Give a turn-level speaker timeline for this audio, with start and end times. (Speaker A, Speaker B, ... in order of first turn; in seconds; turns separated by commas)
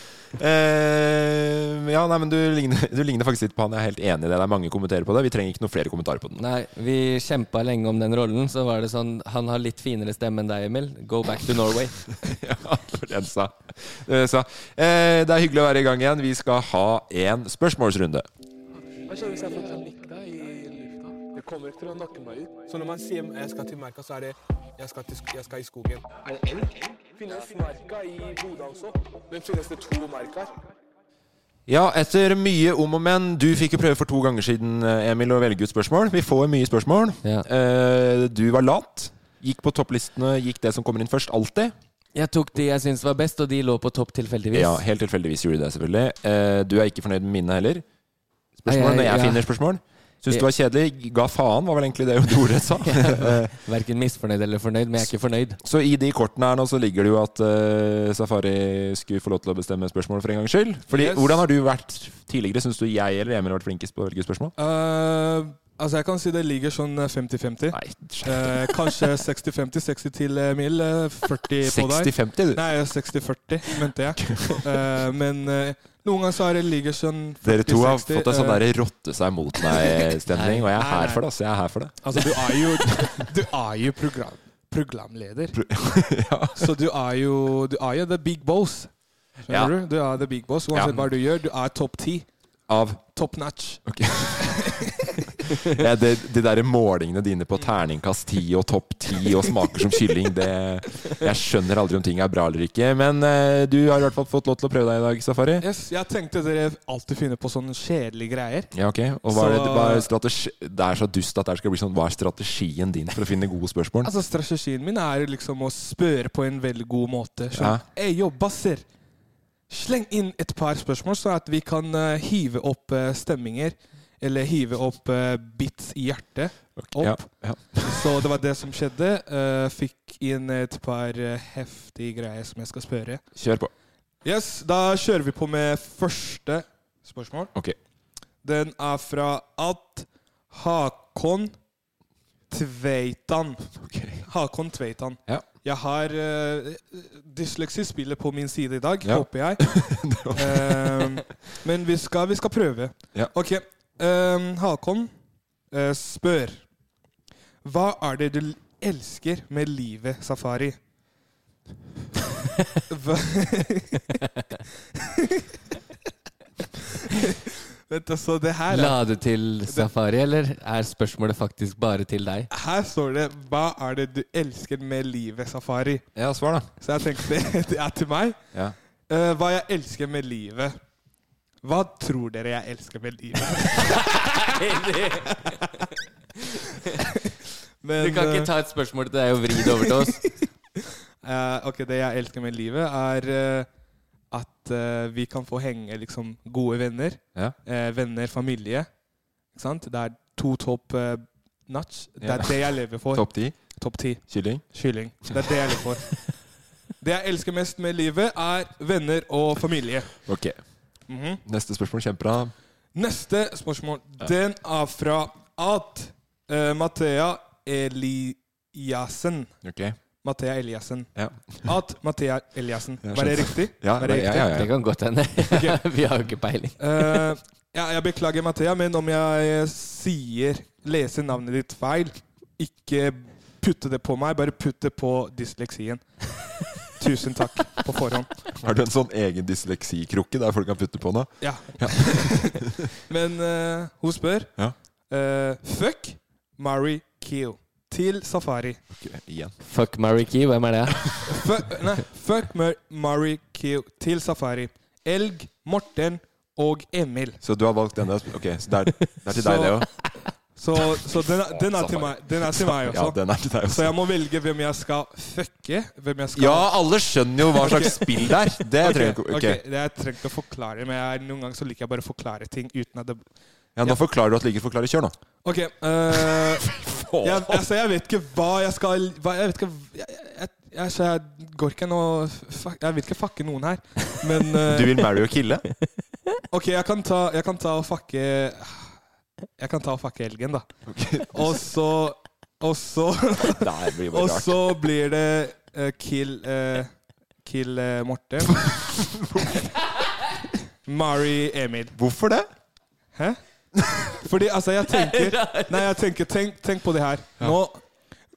Speaker A: 0.3-6.4, Speaker B: 6.4-12.0, Speaker A: 12.2-18.3, Speaker C: 19.1-26.0, Speaker D: 19.2-24.3, Speaker D: 25.6-26.7, Speaker C: 27.2-30.2, Speaker D: 27.2-30.5, Speaker A: 31.7-41.7, Speaker B: 42.1-44.8, Speaker A: 44.5-47.8, Speaker A: 48.6-53.5, Speaker B: 48.7-49.5, Speaker B: 52.8-55.6, Speaker A: 55.6-64.5, Speaker C: 60.9-61.4, Speaker C: 64.6-78.6, Speaker A: 67.7-69.0, Speaker A: 71.6-72.6, Speaker A: 74.3-74.6, Speaker A: 77.4-83.0, Speaker B: 80.3-80.7, Speaker C: 80.8-81.2, Speaker C: 82.0-85.6, Speaker A: 85.5-86.7, Speaker C: 86.5-88.9, Speaker C: 89.4-92.3, Speaker A: 89.5-89.7, Speaker A: 90.7-91.0, Speaker A: 92.7-93.0, Speaker C: 93.1-93.8, Speaker A: 93.9-94.6, Speaker C: 94.4-95.5, Speaker A: 95.6-105.6, Speaker C: 105.6-108.7, Speaker A: 108.7-114.1, Speaker C: 109.2-110.1, Speaker C: 114.0-118.8, Speaker A: 117.5-117.8, Speaker C: 119.7-127.3, Speaker A: 126.8-128.1, Speaker C: 127.8-133.2, Speaker A: 133.3-133.7, Speaker C: 134.2-137.5, Speaker C: 138.4-141.5, Speaker C: 142.5-143.7, Speaker A: 143.8-144.2, Speaker C: 144.2-149.7, Speaker A: 149.0-151.2, Speaker C: 150.3-155.1, Speaker C: 155.7-156.6, Speaker C: 157.6-160.8, Speaker C: 162.9-164.2, Speaker C: 165.0-165.4, Speaker C: 167.1-169.0, Speaker B: 168.7-172.5, Speaker C: 172.5-176.0, Speaker A: 176.2-176.7, Speaker C: 176.8-178.4, Speaker C: 179.1-180.8, Speaker C: 181.6-184.2, Speaker B: 183.9-185.6, Speaker C: 187.8-188.5, Speaker B: 188.0-190.2, Speaker C: 191.2-193.7, Speaker C: 194.3-198.9, Speaker C: 199.5-206.2, Speaker A: 202.2-203.6, Speaker A: 204.3-204.6, Speaker C: 207.0-210.2, Speaker A: 210.3-210.6, Speaker C: 211.1-211.4, Speaker A: 211.4-212.5, Speaker C: 212.9-219.5, Speaker A: 219.6-220.0, Speaker C: 220.2-221.1, Speaker A: 221.2-221.7, Speaker C: 221.6-224.5, Speaker A: 223.0-224.7, Speaker B: 224.5-227.2, Speaker C: 225.5-225.8, Speaker C: 226.8-236.0, Speaker C: 236.9-238.4, Speaker A: 238.6-242.8, Speaker C: 241.4-244.5, Speaker C: 245.1-248.8, Speaker A: 249.0-249.5, Speaker B: 249.6-251.0, Speaker C: 251.2-257.4, Speaker A: 257.4-259.9, Speaker C: 259.3-259.8, Speaker C: 260.6-266.7, Speaker A: 261.2-263.9, Speaker A: 266.3-269.6, Speaker C: 267.5-273.2, Speaker A: 273.8-275.1, Speaker C: 275.4-285.1, Speaker A: 276.2-277.6, Speaker A: 284.7-285.6, Speaker C: 286.5-288.9, Speaker C: 289.6-290.6, Speaker A: 290.9-291.6, Speaker C: 291.3-296.9, Speaker A: 293.5-294.7, Speaker C: 297.4-298.7, Speaker A: 298.7-299.7, Speaker C: 300.9-301.9, Speaker A: 301.9-302.5, Speaker C: 304.1-307.8, Speaker B: 304.9-305.8